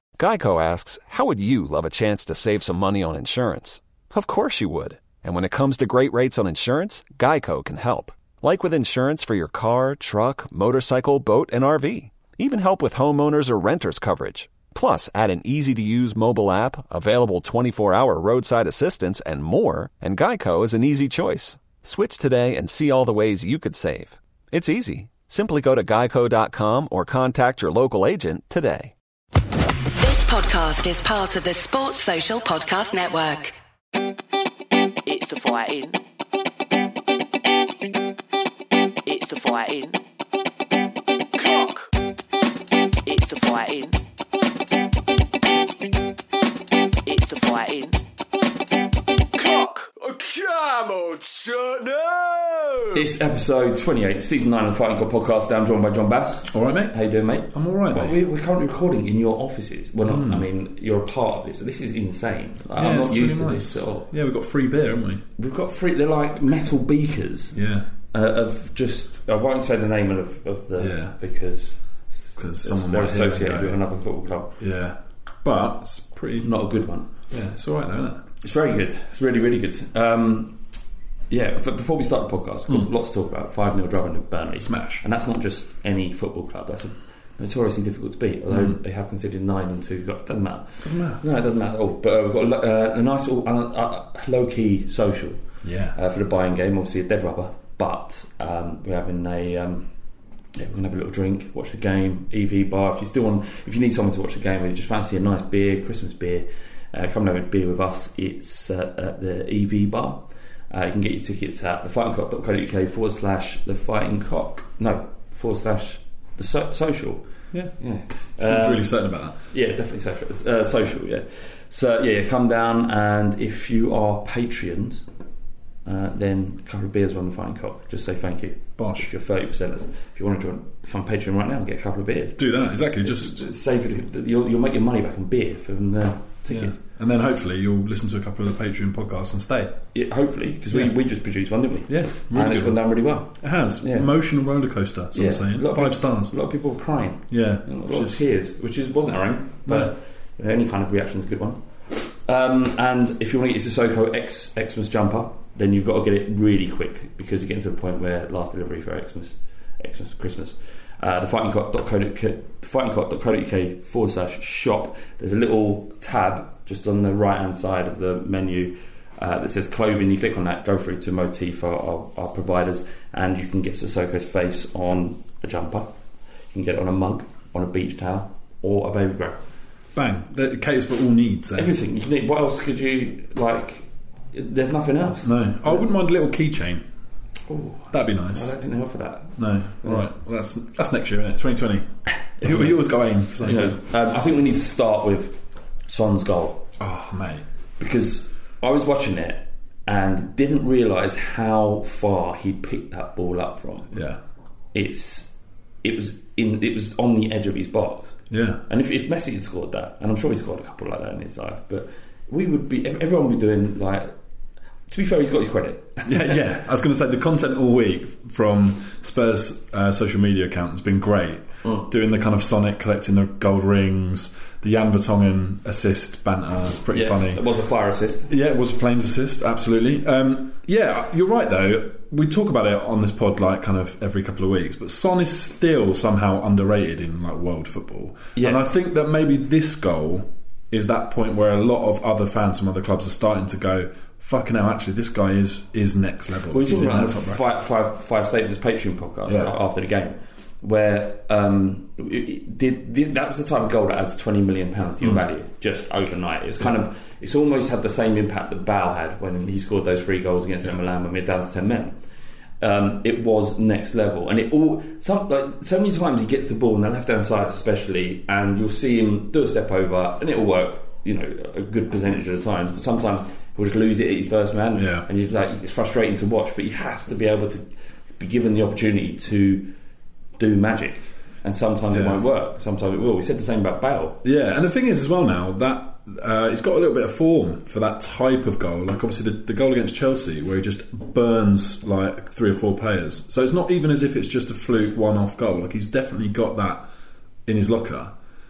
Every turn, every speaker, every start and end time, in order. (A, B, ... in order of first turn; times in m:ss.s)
0:00.2-0:28.9 A
0:30.0-0:33.5 B
0:35.0-0:36.0 C
0:39.0-0:40.0 C
0:41.4-0:41.9 C
0:43.0-0:44.0 C
0:47.0-0:48.0 C
0:49.4-0:53.0 C
0:52.9-1:04.1 D
0:56.5-0:57.0 E
0:57.5-0:58.2 E
1:00.1-1:00.4 E
1:02.8-1:05.2 E
1:05.4-1:07.6 D
1:07.5-1:07.9 E
1:08.1-1:14.6 D
1:10.8-1:11.1 E
1:12.4-1:13.8 E
1:14.6-1:16.5 E
1:16.4-1:17.1 D
1:17.3-1:18.2 E
1:18.4-1:20.6 D
1:21.3-1:35.4 D
1:24.6-1:25.0 E
1:28.5-1:28.8 E
1:30.8-1:31.2 E
1:35.6-1:36.0 E
1:35.9-1:39.9 D
1:40.5-1:57.2 D
1:57.8-1:58.9 D
1:58.4-1:59.4 E
1:59.5-2:05.0 D
2:05.8-2:12.4 D
2:08.8-2:09.1 E
2:12.4-2:13.4 E
2:13.0-2:16.8 D
2:16.5-2:19.8 E
2:19.9-2:24.1 D
2:21.9-2:26.3 E
2:25.1-2:55.9 D
2:27.3-2:28.2 E
2:29.6-2:29.9 E
2:56.5-2:59.4 D
2:59.9-3:01.7 E
3:01.6-3:05.8 D
3:05.2-3:06.8 E
3:07.5-3:10.1 D
3:07.9-3:08.5 E
3:09.4-3:13.8 E
3:12.4-3:12.8 D
3:13.4-3:16.6 D
3:16.8-3:17.4 E
3:17.8-3:23.9 D
3:23.9-3:24.2 E
3:24.7-3:25.3 D
3:25.8-3:34.1 D
3:28.3-3:28.6 E
3:34.9-3:36.4 D
3:36.0-3:47.4 E
3:46.9-3:48.3 D
3:48.3-4:07.4 E
3:58.3-3:58.6 D
4:06.5-4:22.0 D
4:09.3-4:09.5 E
4:22.6-4:37.6 D
4:34.8-4:35.1 E
4:38.2-4:39.7 D
4:40.4-4:44.2 D
4:41.9-4:42.2 E
4:44.2-4:56.8 E
4:57.4-4:58.1 E